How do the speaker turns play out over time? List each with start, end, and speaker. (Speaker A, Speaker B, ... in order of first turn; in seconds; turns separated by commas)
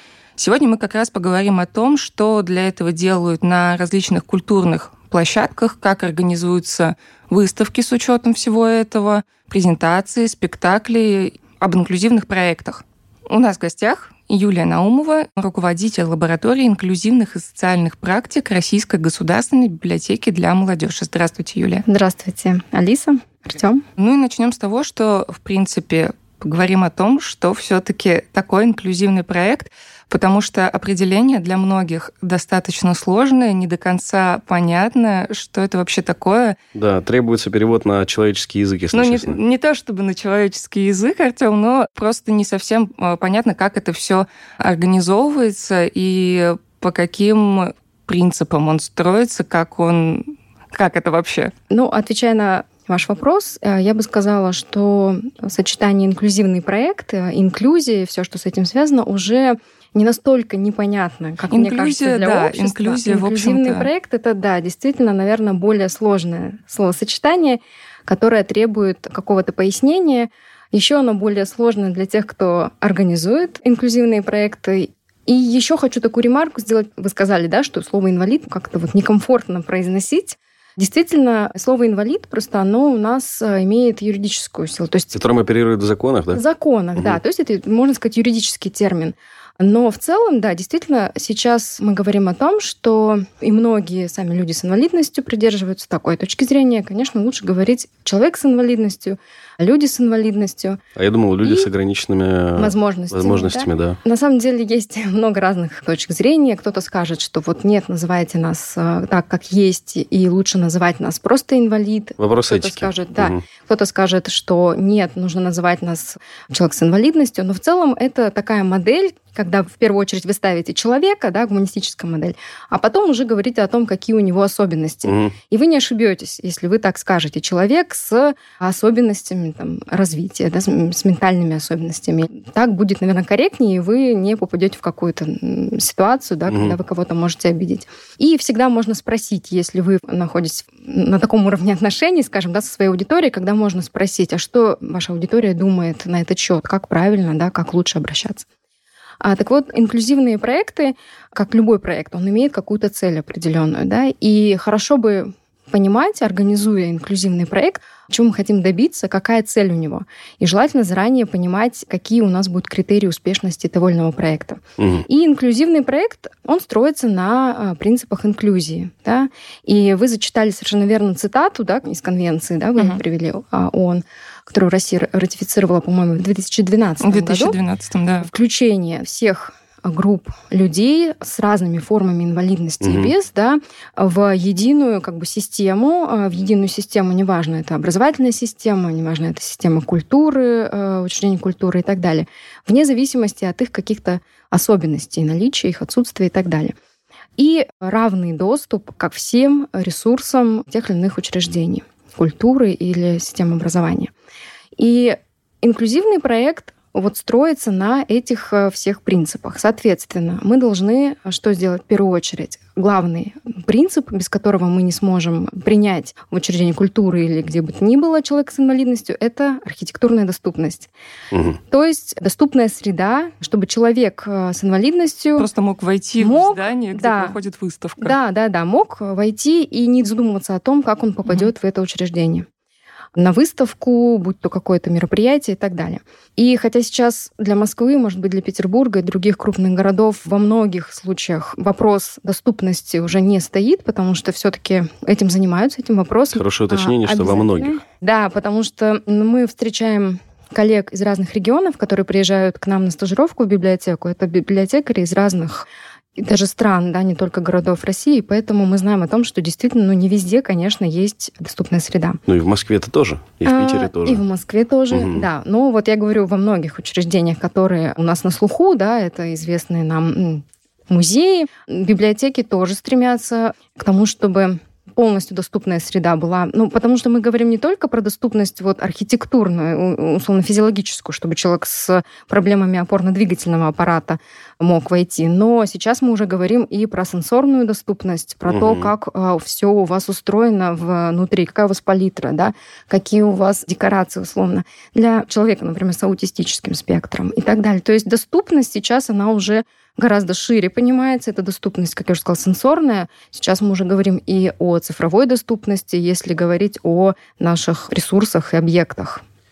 Speaker A: 0.4-21.9, Speaker B: 21.9-23.8, Speaker A: 24.0-36.6, Speaker C: 36.8-39.4, Speaker A: 38.9-51.5, Speaker B: 51.7-85.2, Speaker A: 61.5-63.9, Speaker C: 85.1-86.4, Speaker B: 86.3-100.8, Speaker C: 101.0-104.0, Speaker B: 101.4-101.7, Speaker B: 102.6-148.4, Speaker C: 112.2-113.4, Speaker C: 125.1-125.3, Speaker C: 136.5-136.8, Speaker B: 149.2-177.6, Speaker C: 164.8-165.0, Speaker A: 177.0-178.3, Speaker B: 178.2-196.7, Speaker C: 182.8-183.1, Speaker B: 197.4-204.1, Speaker B: 204.8-220.9, Speaker B: 221.7-225.5, Speaker A: 225.4-228.2, Speaker B: 226.2-227.4, Speaker B: 228.0-232.5, Speaker B: 233.2-262.2, Speaker C: 246.3-247.8, Speaker C: 262.3-264.2, Speaker B: 263.4-309.2, Speaker C: 264.9-265.3, Speaker C: 288.5-288.9